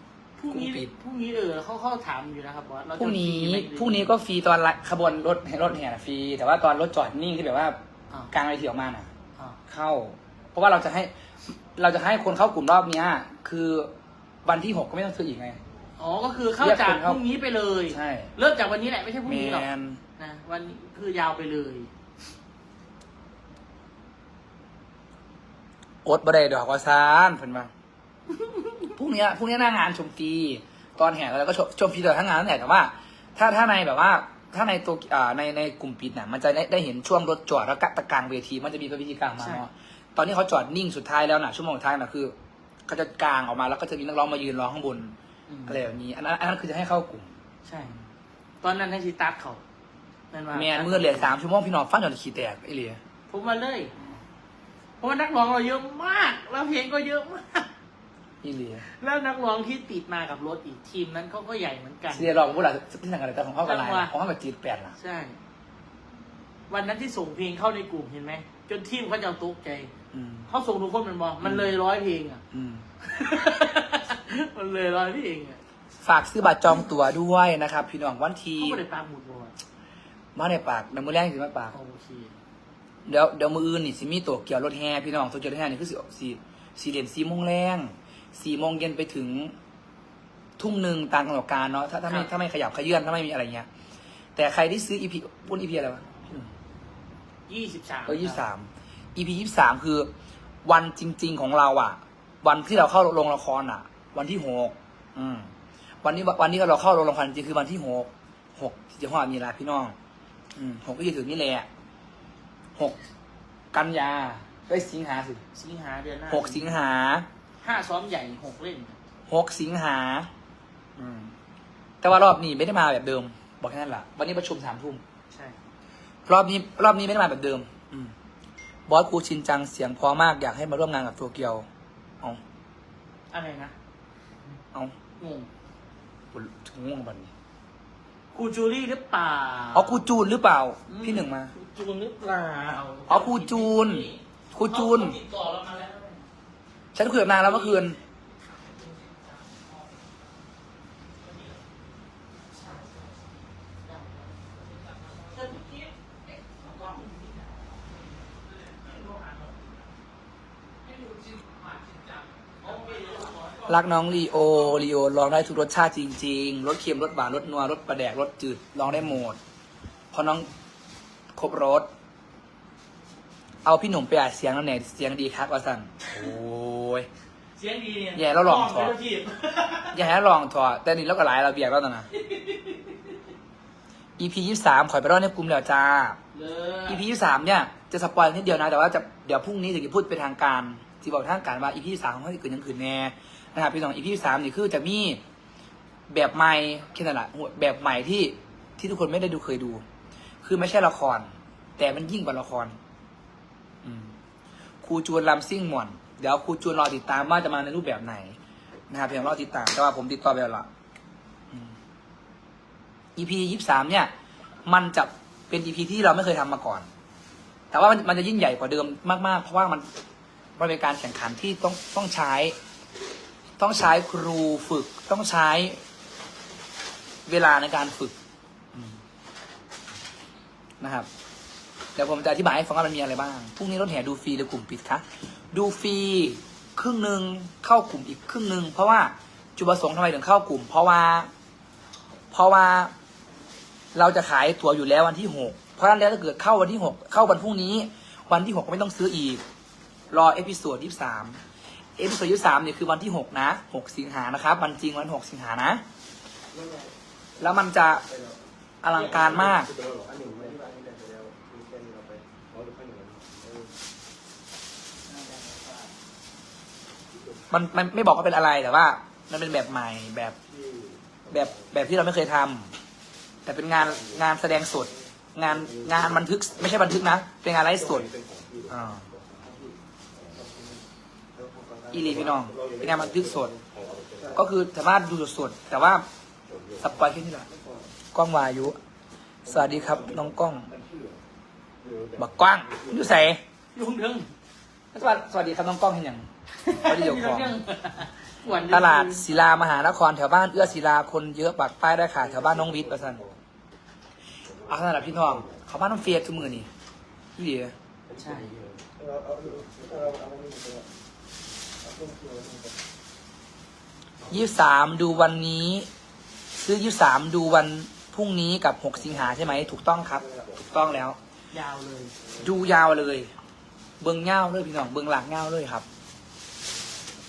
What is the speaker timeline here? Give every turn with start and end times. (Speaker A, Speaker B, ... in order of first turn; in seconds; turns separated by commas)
Speaker A: 0.4-4.1, Speaker B: 0.5-0.9, Speaker B: 3.0-7.8, Speaker B: 8.3-9.1, Speaker B: 9.7-13.9, Speaker B: 14.4-15.6, Speaker A: 16.0-21.9, Speaker B: 16.6-17.2, Speaker B: 17.9-18.3, Speaker B: 19.2-20.0, Speaker B: 26.0-27.7, Speaker A: 28.3-28.9, Speaker B: 28.9-42.3, Speaker A: 39.4-39.6, Speaker B: 42.9-45.1, Speaker A: 45.5-45.8, Speaker B: 45.7-47.3, Speaker A: 47.6-47.9, Speaker A: 48.6-49.6, Speaker A: 50.3-51.3, Speaker B: 50.5-53.0, Speaker A: 53.3-53.9, Speaker A: 55.0-57.7, Speaker B: 58.4-58.8, Speaker A: 58.9-62.3, Speaker B: 62.1-64.9, Speaker A: 63.6-64.1, Speaker A: 65.0-65.4, Speaker A: 66.7-69.9, Speaker B: 70.1-70.5, Speaker A: 70.5-72.4, Speaker B: 71.4-71.7, Speaker B: 72.5-72.8, Speaker A: 73.0-75.6, Speaker B: 76.0-78.8, Speaker A: 78.6-79.5, Speaker B: 80.3-81.7, Speaker A: 81.7-82.3, Speaker B: 83.0-89.5, Speaker B: 90.6-93.7, Speaker B: 94.3-96.5, Speaker A: 97.5-98.4, Speaker B: 98.0-100.1, Speaker B: 100.6-105.5, Speaker B: 106.0-110.0, Speaker B: 110.5-111.7, Speaker B: 113.7-115.4, Speaker A: 115.5-116.7, Speaker B: 116.3-117.3, Speaker A: 117.6-119.0, Speaker B: 119.3-120.3, Speaker B: 121.0-121.3, Speaker B: 122.0-125.0, Speaker A: 125.3-125.6, Speaker B: 126.3-128.1, Speaker B: 128.9-131.7, Speaker A: 133.3-133.7, Speaker A: 135.2-135.5, Speaker B: 136.3-137.3, Speaker A: 138.3-140.0, Speaker B: 139.7-141.5, Speaker A: 140.9-146.2, Speaker B: 143.1-145.2, Speaker B: 146.9-148.0, Speaker A: 147.3-147.8, Speaker A: 151.2-151.6, Speaker A: 152.5-153.1, Speaker A: 153.8-154.5, Speaker A: 155.3-157.8, Speaker A: 158.6-159.7, Speaker A: 162.6-163.8, Speaker B: 163.7-169.4, Speaker B: 170.1-170.5, Speaker B: 171.3-171.9, Speaker B: 173.6-177.1, Speaker A: 177.6-179.9, Speaker B: 178.2-178.9, Speaker B: 179.9-182.1, Speaker A: 182.1-183.2, Speaker B: 184.2-186.2, Speaker A: 186.3-187.0, Speaker B: 186.9-195.2, Speaker B: 196.1-199.8, Speaker B: 200.4-202.8, Speaker B: 203.8-204.1, Speaker B: 204.8-208.3, Speaker B: 208.9-210.7, Speaker B: 213.1-214.1, Speaker B: 214.6-216.9, Speaker B: 217.7-219.9, Speaker B: 220.6-222.6, Speaker B: 223.6-225.8, Speaker B: 227.2-228.1, Speaker B: 228.7-229.0, Speaker B: 230.8-231.1, Speaker B: 231.9-241.3, Speaker B: 242.3-242.9, Speaker B: 243.9-249.4, Speaker B: 250.1-251.4, Speaker B: 252.0-255.8, Speaker C: 256.5-256.9, Speaker B: 257.4-258.0, Speaker C: 258.0-258.4, Speaker B: 258.8-259.7, Speaker A: 258.9-259.3, Speaker C: 258.9-263.7, Speaker A: 265.1-265.9, Speaker B: 267.5-270.4, Speaker C: 270.4-271.7, Speaker B: 271.3-272.7, Speaker B: 273.4-278.1, Speaker C: 273.8-274.2, Speaker C: 275.4-276.3, Speaker C: 277.7-280.8, Speaker B: 278.7-279.1, Speaker C: 281.4-284.4, Speaker B: 281.9-283.5, Speaker B: 284.3-286.1, Speaker C: 286.5-287.9, Speaker B: 286.8-287.5, Speaker B: 288.1-288.8, Speaker B: 289.4-290.7, Speaker C: 289.4-291.2, Speaker C: 291.8-293.2, Speaker B: 292.2-293.4, Speaker A: 293.7-294.3, Speaker B: 294.9-296.3, Speaker A: 296.6-299.2, Speaker B: 296.8-297.6, Speaker B: 298.6-303.2, Speaker C: 302.2-303.4, Speaker C: 304.4-306.5, Speaker B: 304.7-306.7, Speaker B: 307.4-307.7, Speaker C: 308.1-310.9, Speaker A: 308.1-308.5, Speaker C: 311.8-312.7, Speaker B: 314.3-315.9, Speaker B: 316.6-321.2, Speaker C: 319.0-321.0, Speaker A: 321.5-322.1, Speaker C: 322.2-322.5, Speaker B: 322.4-323.3, Speaker B: 324.0-325.8